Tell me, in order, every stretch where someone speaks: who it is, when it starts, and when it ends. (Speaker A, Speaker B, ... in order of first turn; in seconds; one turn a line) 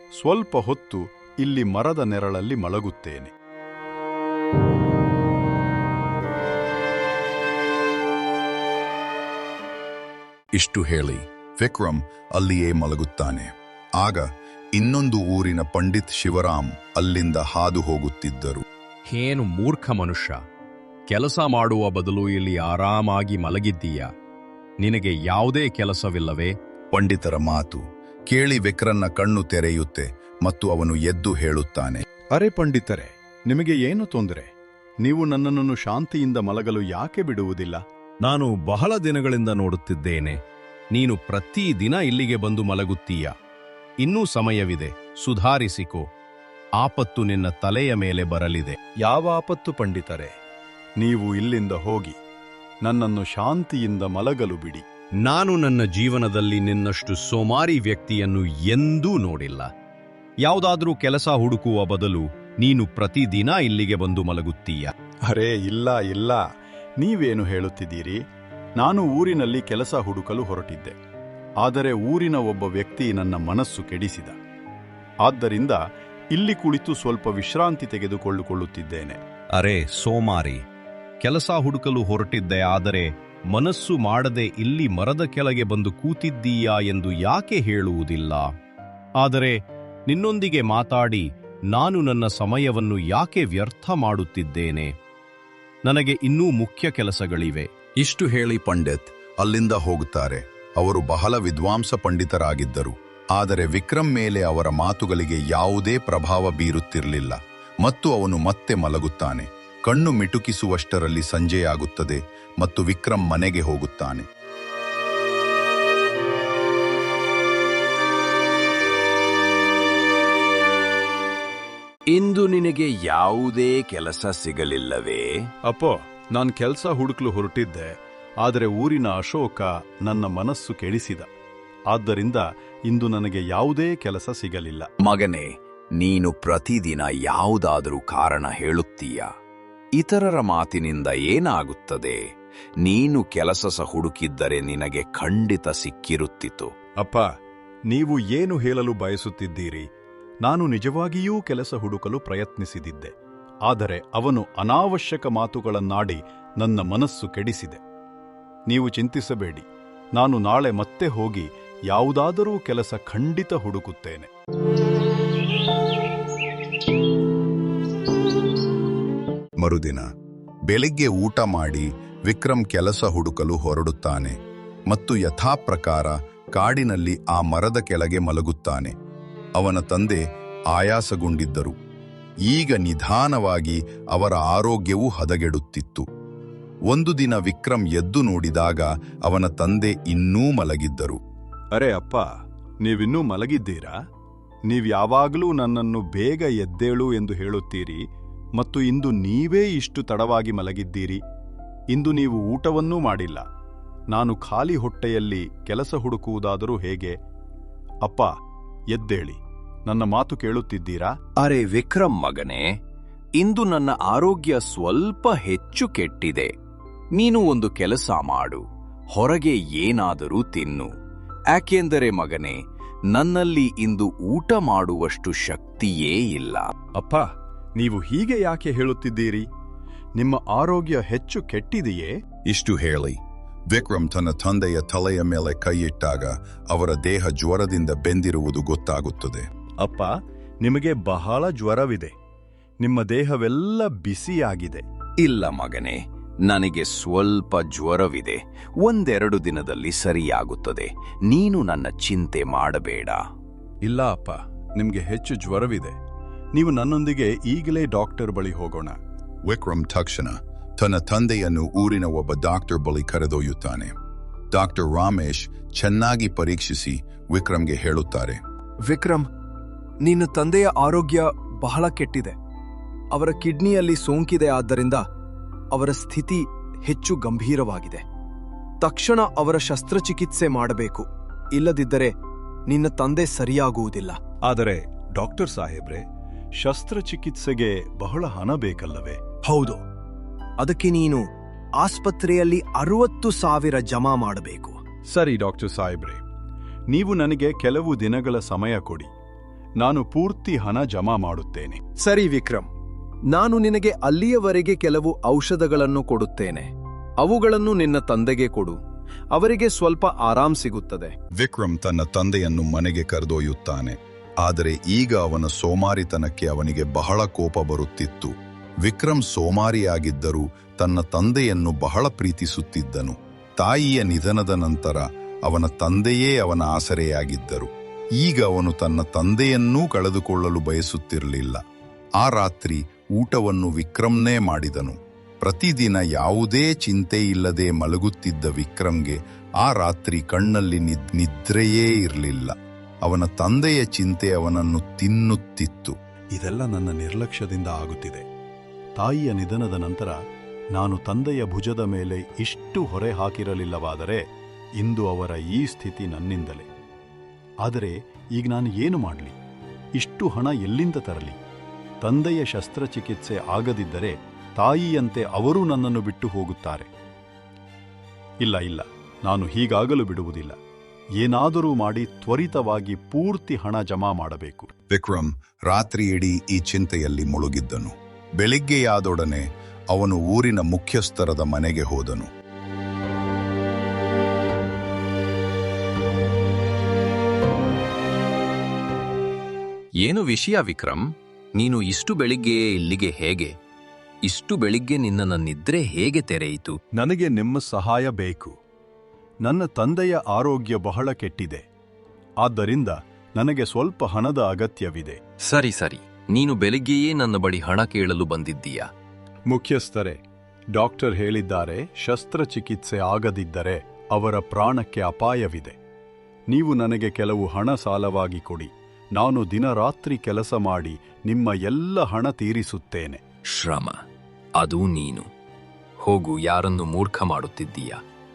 Speaker A: 0.2-3.3
Speaker B: 10.5-18.6
Speaker C: 19.1-20.4
Speaker C: 21.1-24.1
Speaker C: 24.8-26.5
Speaker B: 26.9-32.0
Speaker A: 32.3-34.5
Speaker A: 35.0-37.8
Speaker C: 38.2-40.4
Speaker C: 40.9-43.3
Speaker C: 44.0-46.1
Speaker C: 46.8-48.8
Speaker A: 49.0-50.3
Speaker A: 51.0-52.2
Speaker A: 52.8-54.8
Speaker C: 55.2-59.7
Speaker C: 60.4-64.9
Speaker A: 65.3-66.4
Speaker A: 67.0-68.2
Speaker A: 68.8-71.0
Speaker A: 71.6-74.4
Speaker A: 75.2-75.8
Speaker A: 76.3-79.2
Speaker C: 79.5-80.6
Speaker C: 81.2-88.5
Speaker C: 89.2-94.9
Speaker C: 95.8-97.7
Speaker B: 98.0-114.3
Speaker D: 122.1-122.5
Speaker A: 125.7-127.9
Speaker A: 128.4-131.3
Speaker A: 131.9-134.9
Speaker D: 135.1-139.2
Speaker D: 140.0-142.2
Speaker D: 142.8-146.7
Speaker A: 147.0-147.3
Speaker A: 147.9-149.9
Speaker A: 150.4-153.1
Speaker A: 153.7-157.8
Speaker A: 158.7-164.3
Speaker B: 169.6-170.1
Speaker B: 170.7-174.4
Speaker B: 174.9-178.9
Speaker B: 179.6-181.8
Speaker B: 182.5-186.1
Speaker B: 186.9-191.2
Speaker A: 191.7-192.3
Speaker A: 192.8-194.0
Speaker A: 194.7-198.0
Speaker A: 198.6-201.2
Speaker A: 201.9-203.4
Speaker A: 204.1-207.2
Speaker A: 208.0-208.3
Speaker A: 208.9-211.1
Speaker C: 211.5-212.0
Speaker D: 215.3-215.9
Speaker D: 217.3-218.6
Speaker C: 217.7-218.3
Speaker D: 219.2-219.5
Speaker D: 220.0-220.8
Speaker D: 221.5-222.6
Speaker D: 224.7-225.5
Speaker D: 226.1-226.6
Speaker A: 226.9-229.5
Speaker A: 230.2-232.1
Speaker B: 232.5-239.4
Speaker A: 239.8-242.1
Speaker A: 242.8-244.8
Speaker D: 245.2-253.2
Speaker A: 253.8-256.0
Speaker A: 256.5-259.0
Speaker B: 259.5-263.9
Speaker B: 264.5-268.4
Speaker E: 268.9-269.3
Speaker E: 270.0-272.4
Speaker E: 273.1-275.0
Speaker E: 275.7-278.0
Speaker E: 278.8-282.1
Speaker E: 282.7-284.2
Speaker A: 284.4-286.0
Speaker A: 286.6-289.2
Speaker E: 289.4-289.8
Speaker E: 290.6-291.3
Speaker E: 291.8-294.8
Speaker A: 295.1-296.2
Speaker A: 296.9-299.1
Speaker A: 299.8-301.8
Speaker E: 302.0-302.7
Speaker E: 303.3-306.7
Speaker E: 307.2-308.8
Speaker E: 309.3-311.1
Speaker B: 311.4-327.7
Speaker B: 328.2-331.6
Speaker B: 332.2-346.0
Speaker A: 346.3-348.2
Speaker A: 349.0-350.2
Speaker A: 350.7-354.2
Speaker A: 354.8-356.7
Speaker A: 357.6-359.4
Speaker A: 360.0-361.4
Speaker A: 362.0-366.9
Speaker A: 368.4-370.6
Speaker A: 371.2-374.7
Speaker B: 374.9-382.3
Speaker C: 390.1-391.0
Speaker C: 391.6-393.5
Speaker C: 394.3-396.7
Speaker A: 396.9-398.6
Speaker A: 399.4-401.6
Speaker A: 402.4-405.2
Speaker F: 406.8-408.9
Speaker A: 409.5-410.2
Speaker A: 410.7-415.8
Speaker A: 416.5-423.2
Speaker F: 423.6-423.9